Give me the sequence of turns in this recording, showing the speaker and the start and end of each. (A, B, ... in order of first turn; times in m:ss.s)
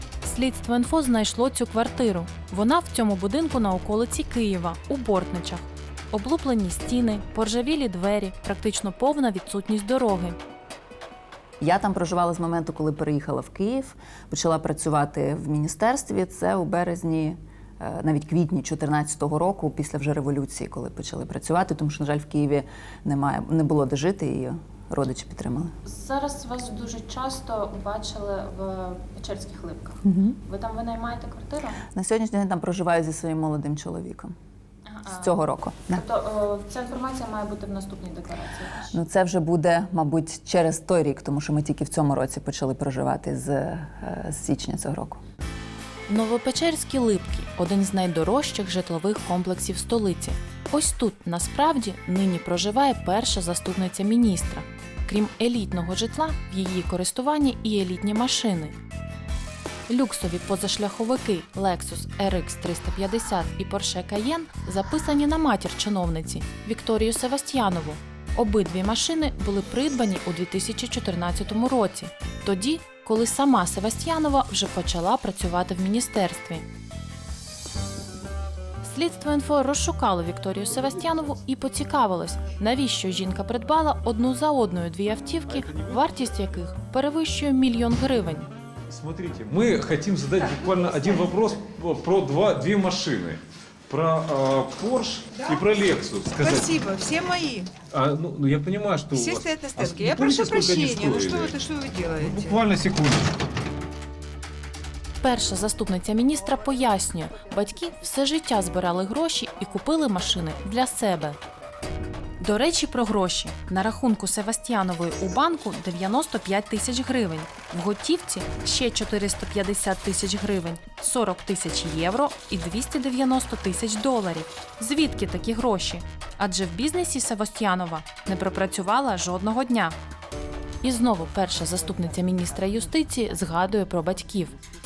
0:00.2-0:10.4 A
0:11.6-0:25.8 B
0:25.8-0:31.8 A
0:30.0-0:30.4 B
0:31.9-0:34.4 B
0:34.9-0:35.4 A
0:35.1-0:36.0 B
0:35.9-0:39.0 A
0:38.9-0:45.2 B
0:46.1-0:58.8 A
0:59.9-1:16.7 A
1:18.8-1:28.5 A
1:25.5-1:26.3 C
1:28.9-1:36.7 C
1:35.3-1:37.7 D
1:37.9-1:41.6 C
1:39.1-1:42.6 D
1:42.2-1:43.3 C
1:45.2-1:51.4 A
1:52.4-2:10.0 A
2:10.8-2:14.6 A